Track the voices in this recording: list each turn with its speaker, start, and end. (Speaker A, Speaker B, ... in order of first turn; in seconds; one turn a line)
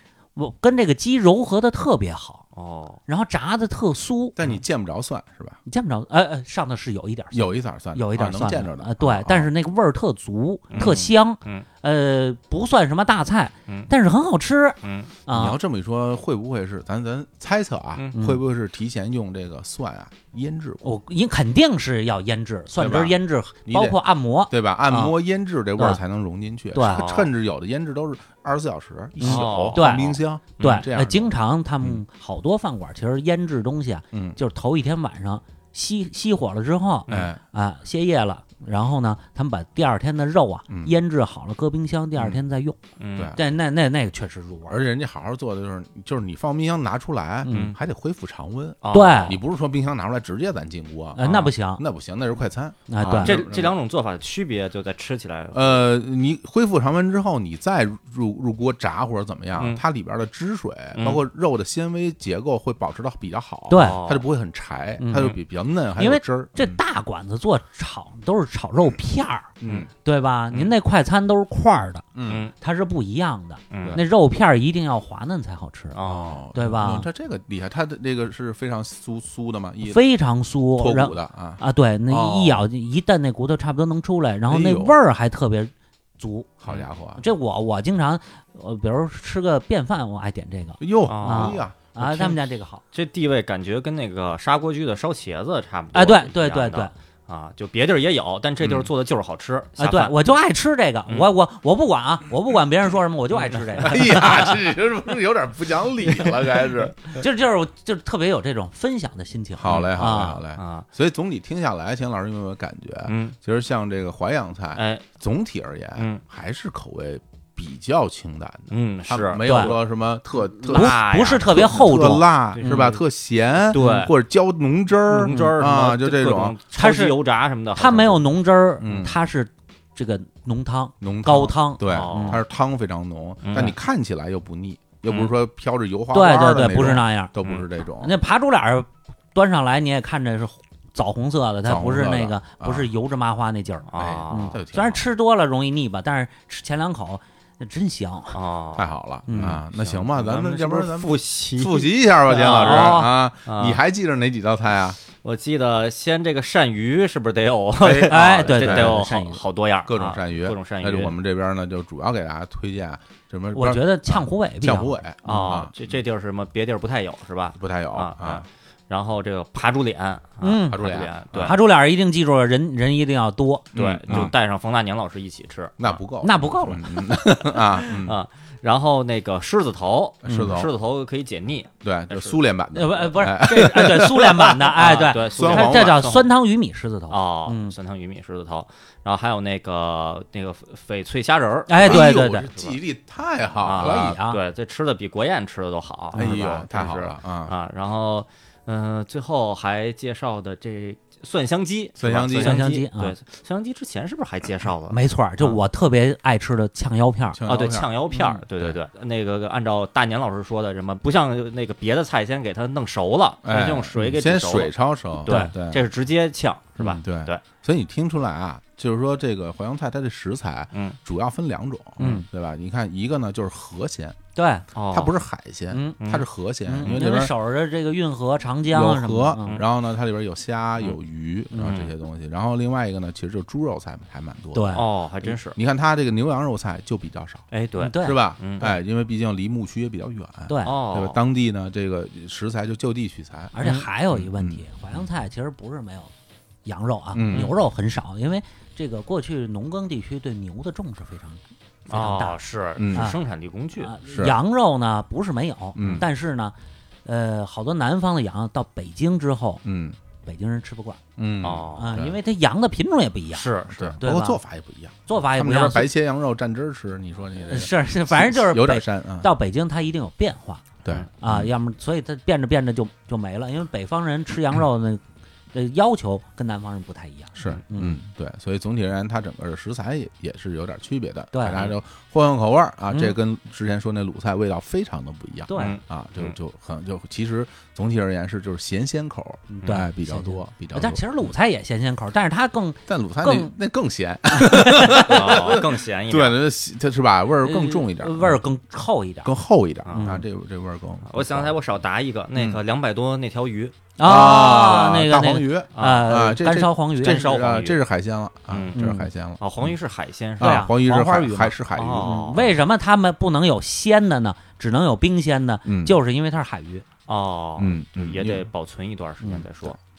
Speaker A: 0.3-2.4
Speaker B: 2.5-3.0
Speaker A: 3.1-4.4
Speaker C: 4.3-5.6
Speaker A: 5.7-15.6
Speaker C: 7.3-9.5
Speaker B: 10.7-11.7
Speaker B: 14.8-15.1
Speaker C: 15.3-20.9
Speaker A: 18.1-18.4
Speaker A: 20.8-25.1
Speaker C: 22.8-31.3
Speaker A: 26.7-27.0
Speaker B: 26.8-27.3
Speaker A: 29.2-42.8
Speaker B: 29.2-30.9
Speaker C: 34.1-34.4
Speaker C: 37.1-37.4
Speaker C: 40.7-40.9
Speaker B: 43.0-43.3
Speaker A: 43.3-44.8
Speaker C: 44.7-53.8
Speaker A: 47.4-47.8
Speaker B: 48.8-49.4
Speaker A: 48.9-49.4
Speaker A: 51.1-51.8
Speaker A: 52.9-53.4
Speaker B: 53.0-55.9
Speaker C: 55.5-66.8
Speaker B: 61.0-61.2
Speaker A: 63.7-64.0
Speaker B: 63.7-64.2
Speaker A: 65.0-65.3
Speaker A: 66.0-69.5
Speaker C: 69.6-69.9
Speaker A: 70.0-72.0
Speaker C: 72.1-72.5
Speaker B: 72.3-72.5
Speaker A: 72.6-76.0
Speaker B: 73.7-74.0
Speaker B: 75.9-76.4
Speaker C: 76.0-80.0
Speaker A: 76.5-77.1
Speaker A: 79.8-86.5
Speaker C: 80.8-82.7
Speaker C: 84.5-85.0
Speaker C: 86.6-87.2
Speaker A: 87.2-92.8
Speaker C: 90.8-92.3
Speaker B: 91.0-91.6
Speaker B: 92.9-100.2
Speaker A: 95.9-96.9
Speaker C: 98.6-98.9
Speaker A: 99.8-104.5
Speaker C: 103.8-107.1
Speaker A: 107.1-110.4
Speaker C: 109.6-126.6
Speaker B: 110.6-110.8
Speaker B: 113.1-113.3
Speaker B: 114.7-115.0
Speaker B: 116.0-116.2
Speaker B: 118.7-119.8
Speaker A: 119.4-119.7
Speaker B: 120.6-123.0
Speaker A: 120.6-122.9
Speaker B: 123.7-124.1
Speaker B: 125.1-128.2
Speaker A: 125.2-125.5
Speaker A: 126.7-127.2
Speaker A: 127.8-132.4
Speaker C: 128.8-129.2
Speaker C: 131.0-138.1
Speaker B: 131.9-132.4
Speaker B: 133.4-133.8
Speaker B: 135.1-135.3
Speaker A: 136.1-137.3
Speaker A: 138.0-148.4
Speaker C: 141.6-142.9
Speaker B: 143.9-144.6
Speaker C: 143.9-145.0
Speaker B: 148.3-153.8
Speaker C: 148.8-155.0
Speaker A: 149.3-149.6
Speaker A: 152.3-153.1
Speaker B: 155.2-161.1
Speaker C: 157.8-159.3
Speaker A: 158.1-159.4
Speaker C: 159.8-165.7
Speaker A: 163.5-165.0
Speaker B: 165.2-171.6
Speaker C: 167.6-168.4
Speaker A: 170.4-170.8
Speaker C: 170.7-171.6
Speaker A: 171.4-174.3
Speaker C: 173.7-174.3
Speaker B: 173.7-176.0
Speaker C: 175.8-178.2
Speaker A: 176.2-177.6
Speaker B: 178.0-182.4
Speaker C: 180.2-180.7
Speaker C: 181.8-186.1
Speaker A: 182.7-187.7
Speaker B: 184.8-186.3
Speaker B: 187.1-192.8
Speaker A: 191.7-192.5
Speaker C: 191.8-194.2
Speaker B: 193.6-205.6
Speaker A: 193.7-194.4
Speaker A: 196.1-196.5
Speaker C: 196.1-197.5
Speaker C: 202.0-202.7
Speaker A: 202.4-203.1
Speaker A: 204.9-207.4
Speaker C: 207.3-207.9
Speaker B: 207.5-217.4
Speaker A: 208.1-208.4
Speaker C: 213.4-215.9
Speaker A: 215.3-215.5
Speaker C: 216.8-224.2
Speaker A: 222.0-222.2
Speaker A: 224.3-224.6
Speaker B: 224.7-225.1
Speaker C: 224.9-227.3
Speaker A: 225.7-226.0
Speaker B: 226.0-226.2
Speaker A: 226.7-229.6
Speaker C: 228.7-234.8
Speaker B: 231.6-231.9
Speaker A: 234.5-234.8
Speaker B: 234.7-235.6
Speaker C: 235.4-237.4
Speaker B: 237.5-238.7
Speaker A: 237.8-238.2
Speaker C: 238.0-243.5
Speaker A: 240.5-240.8
Speaker B: 240.6-241.2
Speaker A: 243.5-246.1
Speaker C: 244.1-245.0
Speaker A: 246.6-252.4
Speaker C: 247.1-247.5
Speaker B: 251.9-253.9
Speaker C: 252.8-253.1
Speaker A: 252.9-253.2
Speaker A: 253.8-259.6
Speaker C: 254.1-254.3
Speaker C: 255.8-256.1
Speaker C: 259.6-260.0
Speaker A: 260.2-261.0
Speaker C: 261.2-262.2
Speaker B: 261.4-261.9
Speaker A: 261.8-263.5
Speaker B: 263.3-264.0
Speaker C: 263.7-269.3
Speaker A: 264.0-264.4
Speaker A: 265.1-265.9
Speaker A: 267.4-270.6
Speaker C: 270.8-271.5
Speaker A: 271.2-278.0
Speaker C: 277.4-291.0
Speaker A: 281.3-281.7
Speaker A: 285.5-285.8
Speaker B: 285.5-286.3
Speaker A: 289.5-293.5
Speaker C: 292.9-298.4
Speaker A: 294.3-295.3
Speaker B: 295.1-296.4
Speaker A: 297.4-299.3
Speaker C: 299.2-301.6
Speaker A: 299.9-300.2
Speaker B: 301.1-303.8
Speaker C: 302.3-302.6
Speaker A: 304.0-307.2
Speaker C: 304.0-309.8
Speaker B: 305.8-306.1
Speaker B: 307.0-307.8
Speaker B: 308.5-308.8
Speaker A: 308.7-309.1
Speaker B: 309.4-310.6
Speaker C: 310.4-312.5
Speaker A: 310.4-316.8
Speaker B: 311.8-312.4
Speaker C: 315.6-315.9
Speaker B: 317.1-319.8
Speaker C: 317.6-318.5